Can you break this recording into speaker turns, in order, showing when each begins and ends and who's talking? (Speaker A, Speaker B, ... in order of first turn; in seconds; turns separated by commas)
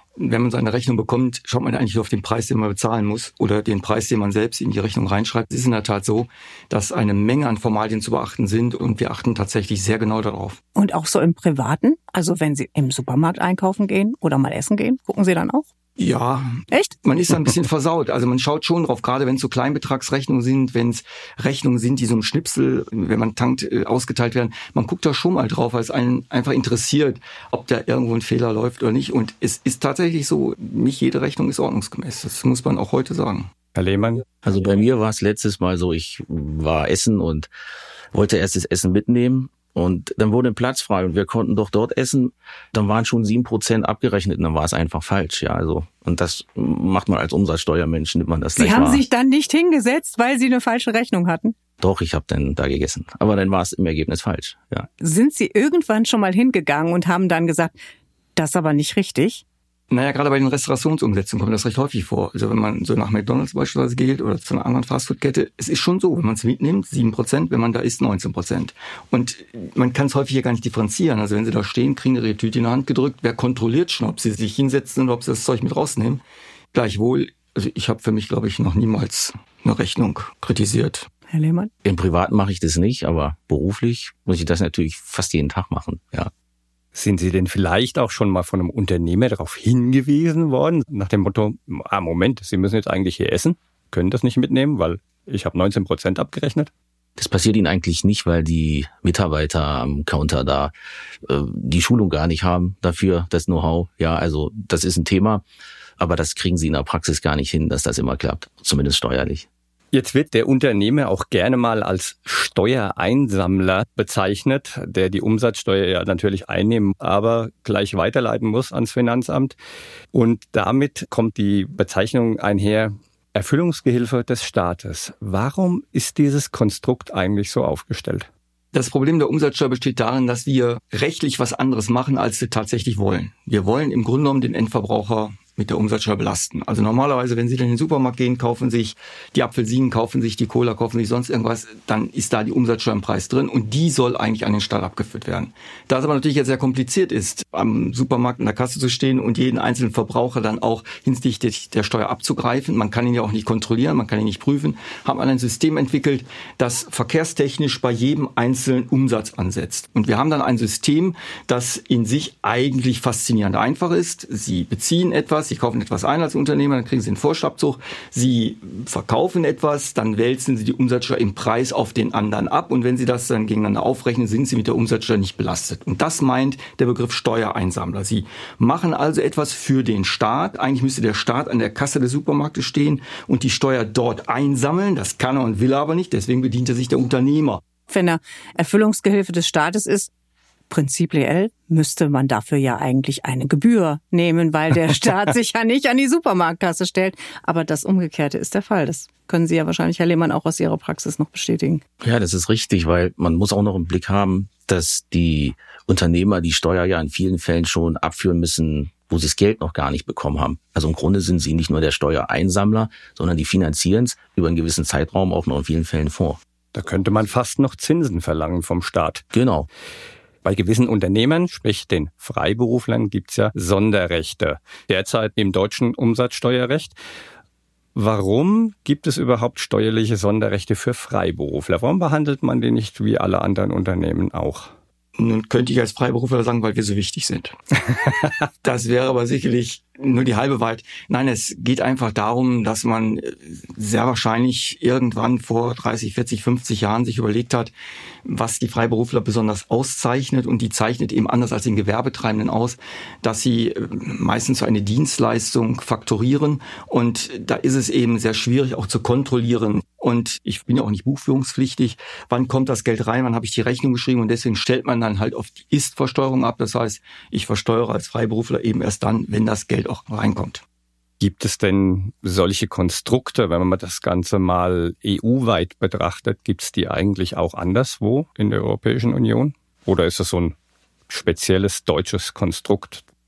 Speaker A: 0.2-10.6, Speaker B: 10.8-15.7, Speaker A: 16.0-33.5, Speaker C: 33.7-34.2, Speaker D: 34.4-37.5, Speaker D: 38.1-49.0, Speaker B: 48.6-51.5, Speaker D: 51.8-54.9, Speaker B: 55.0-57.8, Speaker B: 58.4-59.4, Speaker A: 59.9-76.2, Speaker A: 76.7-81.1, Speaker B: 81.3-81.7, Speaker D: 81.8-86.3, Speaker C: 86.9-96.7, Speaker D: 97.2-100.7, Speaker D: 101.2-105.4, Speaker D: 106.0-109.5, Speaker C: 109.9-119.5, Speaker C: 120.1-128.3, Speaker A: 128.7-187.6, Speaker B: 187.9-190.1, Speaker B: 190.7-201.8, Speaker D: 202.0-216.4, Speaker C: 216.7-219.2, Speaker D: 219.3-219.7, Speaker C: 220.4-226.9, Speaker C: 227.9-234.7, Speaker A: 235.2-238.1, Speaker A: 238.6-247.7, Speaker A: 248.2-270.6, Speaker C: 271.2-280.5, Speaker C: 281.1-283.0